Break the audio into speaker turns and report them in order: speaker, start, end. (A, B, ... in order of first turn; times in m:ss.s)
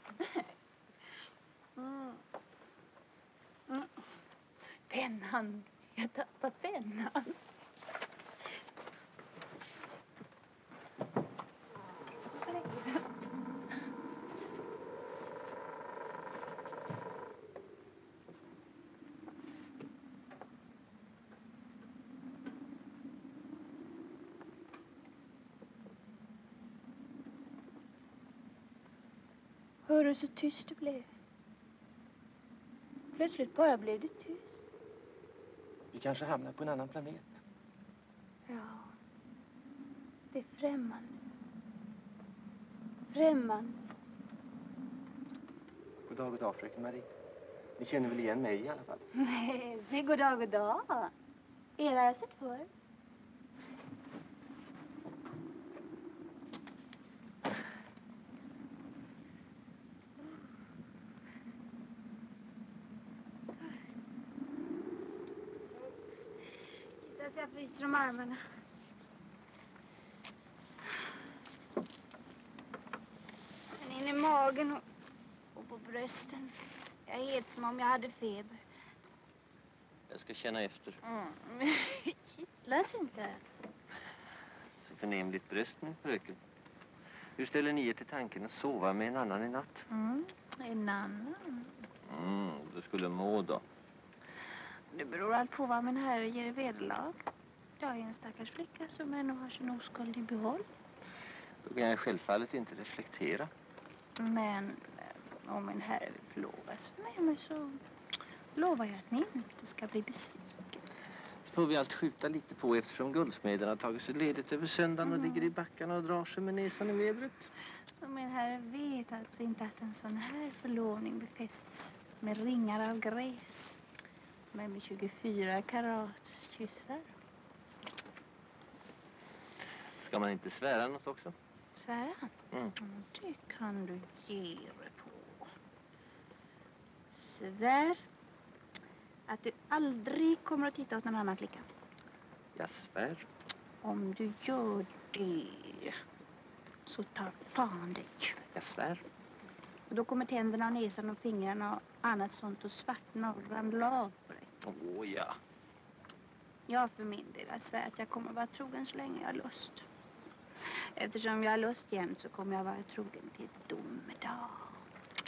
0:01.8-0:02.2 A
0:03.7-0:03.9 A
0:04.9-0:07.4 A
0:12.3-0:13.1 A
0:29.8-0:31.1 A
0:33.1-0:34.6 A
0:35.9-0:37.3 B
0:38.5-0:38.9 A
0:40.3-0:41.2 A
0:43.1-0:43.8 A
0:46.1-0:47.1 B
0:47.8-0:49.0 B
0:49.2-0:51.1 A
0:51.8-0:52.7 A
1:07.0-1:08.4 A
1:13.7-1:14.8 A
1:15.5-1:16.5 A
1:17.0-1:18.6 A
1:20.1-1:21.0 B
1:21.0-1:23.4 A
1:24.8-1:26.4 B
1:27.4-1:29.8 B
1:29.9-1:31.9 A
1:32.1-1:33.6 B
1:34.9-1:37.2 A
1:37.8-1:40.6 A
1:41.6-1:43.5 B
1:44.2-1:47.8 A
1:48.6-1:50.8 A
1:51.5-1:57.5 B
1:55.0-1:55.5 A
1:58.0-2:03.8 A
2:04.5-2:07.1 A
2:10.0-2:11.3 B
2:11.8-2:15.5 A
2:17.1-2:18.0 A
2:19.3-2:21.6 A
2:22.5-2:23.3 B
2:23.8-2:26.0 A
2:26.8-2:28.4 A
2:28.5-2:29.0 B
2:29.9-2:34.5 A
2:34.6-2:35.4 B
2:36.7-2:39.8 A
2:41.0-2:44.8 A